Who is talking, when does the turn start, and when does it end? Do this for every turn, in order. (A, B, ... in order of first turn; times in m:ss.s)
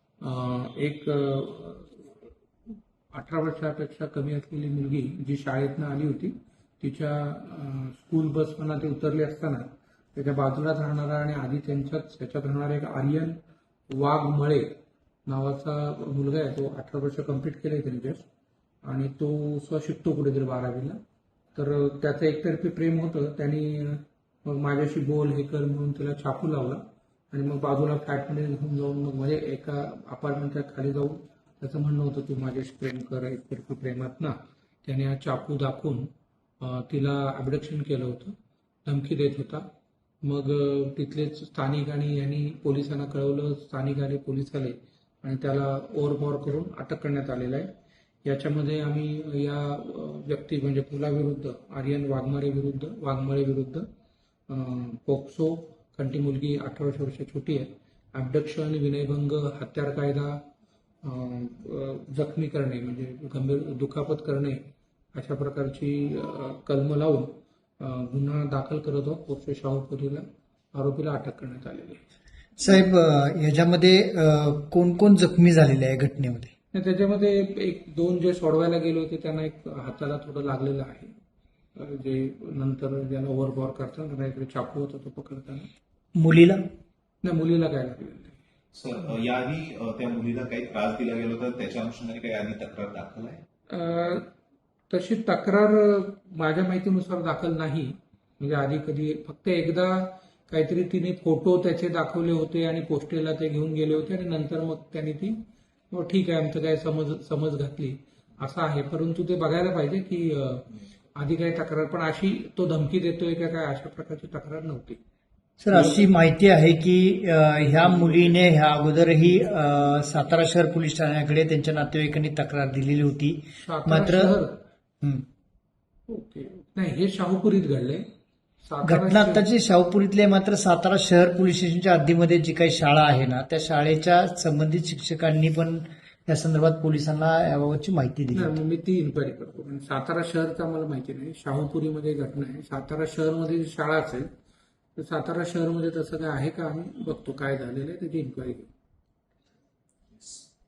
0:00.2-0:02.3 A
0:03.1-0:13.4 A
0:13.9-0:14.7 A
0:15.3-0:18.2 A
0:18.8-0:21.0 A
0:21.6-0:36.1 A
0:36.6-0:39.6 A
0:40.2-0:47.7 A
0:48.2-0:53.9 A
0:54.5-1:00.4 A
1:01.0-1:04.6 A
1:05.1-1:12.0 A
1:12.6-1:16.5 B
1:16.7-1:21.1 A
1:21.8-1:25.7 A
1:26.2-1:26.6 B
1:27.2-1:28.4 A
1:28.7-1:33.4 C
1:33.7-1:34.3 A
1:34.9-1:45.4 A
1:45.9-1:55.0 A
1:55.6-2:04.4 B
1:55.7-1:56.1 A
1:57.8-1:58.4 A
2:03.6-2:04.5 A
2:06.1-2:08.0 A
2:08.6-2:09.4 A
2:08.8-2:18.6 B
2:18.3-2:24.3 A
2:25.0-2:28.7 A